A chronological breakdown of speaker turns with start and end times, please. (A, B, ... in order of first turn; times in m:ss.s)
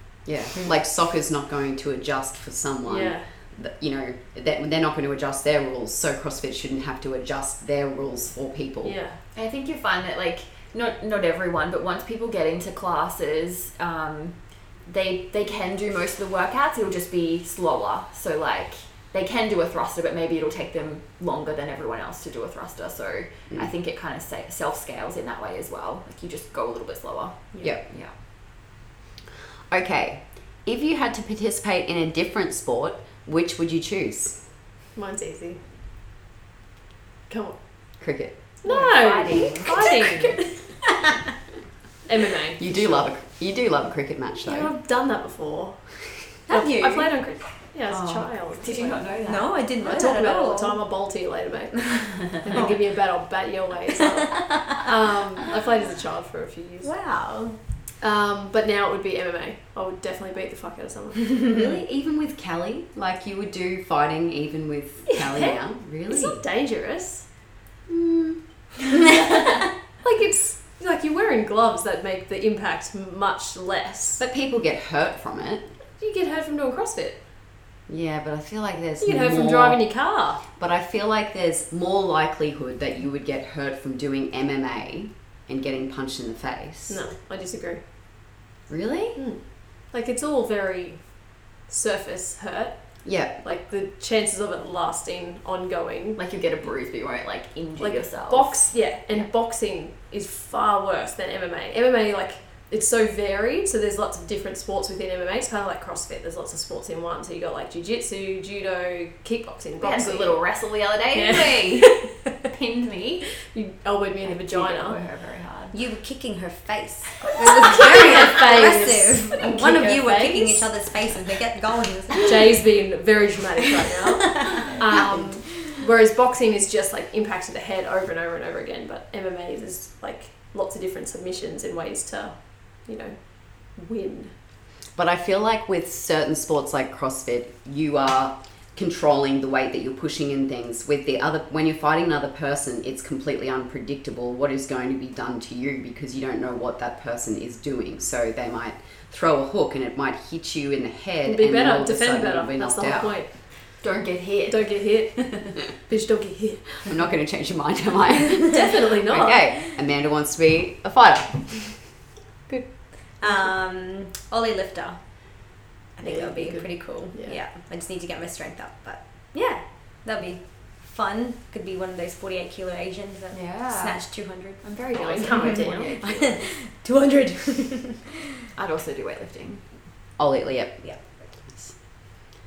0:00.2-0:09.0 A
0:02.9-0:03.3 B
0:08.8-0:09.2 B
0:09.3-0:28.1 C
0:29.7-0:34.4 A
0:35.0-0:35.6 B
0:37.3-0:37.6 B
0:38.0-0:38.4 A
0:38.6-0:40.4 B
0:38.6-0:40.0 C
0:39.3-0:41.0 D
0:42.1-0:43.1 B
0:42.6-0:44.7 A
0:44.4-0:49.2 B
0:46.5-0:47.1 D
0:47.9-0:49.7 C
0:49.2-0:50.8 D
0:49.8-0:56.9 B
0:52.5-0:52.8 D
0:56.8-0:57.6 D
0:58.0-1:01.3 B
1:01.5-1:06.4 A
1:05.1-1:07.3 B
1:07.9-1:08.4 A
1:10.0-1:14.2 B
1:14.2-1:15.7 A
1:16.0-1:17.2 B
1:17.9-1:19.9 A
1:19.0-1:20.4 B
1:20.6-1:27.0 A
1:26.9-1:27.8 B
1:28.7-1:29.2 A
1:29.2-1:36.2 B
1:33.0-1:33.4 A
1:36.2-1:39.2 C
1:37.8-1:50.4 B
1:49.8-1:53.3 C
1:51.1-1:52.3 B
1:53.4-1:55.0 B
1:54.3-1:55.8 C
1:55.7-2:02.6 D
1:57.3-2:00.7 B
2:02.2-2:14.3 B
2:04.4-2:05.1 D
2:15.0-2:33.2 A
2:31.2-2:33.6 B
2:33.8-2:35.6 C
2:34.5-2:36.9 B
2:36.9-2:41.8 A
2:38.5-2:39.6 B
2:42.5-2:58.1 D
2:46.0-2:47.4 B
2:53.3-2:56.4 C
2:54.9-2:56.2 B
2:58.6-2:59.6 C
3:00.2-3:01.7 A
3:00.8-3:01.2 D